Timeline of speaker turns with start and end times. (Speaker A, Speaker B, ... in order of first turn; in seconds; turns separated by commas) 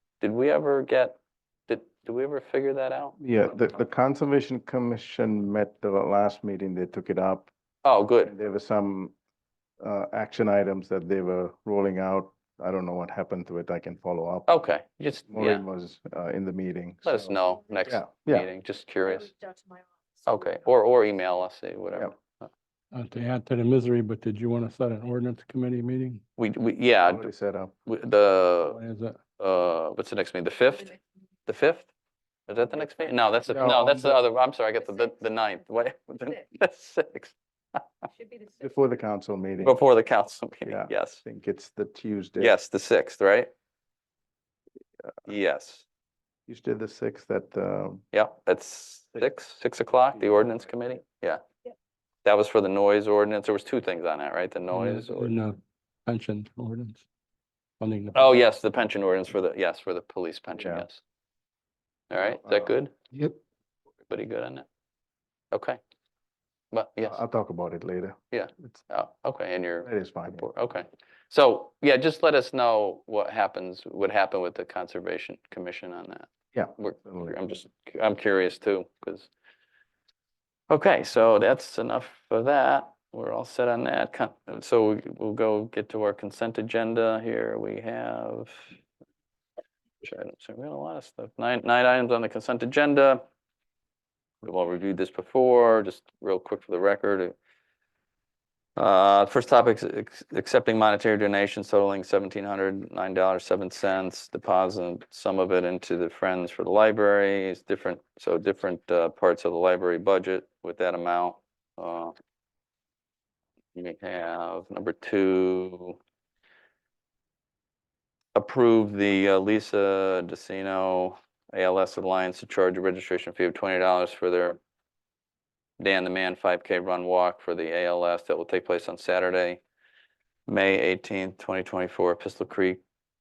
Speaker A: 0.2-3.2, Speaker B: 3.2-7.5, Speaker A: 7.8-8.3, Speaker B: 8.2-9.1, Speaker B: 9.8-14.6, Speaker A: 14.5-15.7, Speaker B: 15.3-17.3, Speaker A: 17.0-19.3, Speaker C: 17.2-17.9, Speaker B: 17.9-18.5, Speaker C: 19.0-21.0, Speaker A: 20.2-22.5, Speaker D: 22.9-26.2, Speaker A: 26.4-27.3, Speaker B: 27.0-27.7, Speaker A: 27.9-28.8, Speaker D: 28.7-29.2, Speaker A: 29.4-31.9, Speaker A: 32.5-37.8, Speaker B: 33.5-34.2, Speaker B: 38.6-39.8, Speaker A: 39.6-41.2, Speaker B: 40.6-42.6, Speaker A: 42.4-43.5, Speaker A: 45.3-45.9, Speaker B: 46.5-48.0, Speaker A: 48.1-51.4, Speaker B: 50.1-50.7, Speaker A: 52.2-55.3, Speaker D: 54.7-57.1, Speaker D: 57.8-58.3, Speaker A: 58.1-61.0, Speaker B: 60.6-60.9, Speaker A: 62.1-62.9, Speaker B: 62.2-62.7, Speaker A: 64.1-64.7, Speaker A: 65.5-65.8, Speaker A: 66.7-67.2, Speaker B: 67.0-68.8, Speaker A: 68.3-79.3, Speaker B: 69.8-70.5, Speaker B: 76.5-77.3, Speaker A: 80.7-88.8, Speaker A: 90.0-93.2, Speaker A: 94.4-97.3, Speaker A: 98.8-112.1, Speaker A: 113.7-116.0, Speaker A: 118.3-124.6, Speaker A: 125.8-129.6, Speaker A: 130.5-132.8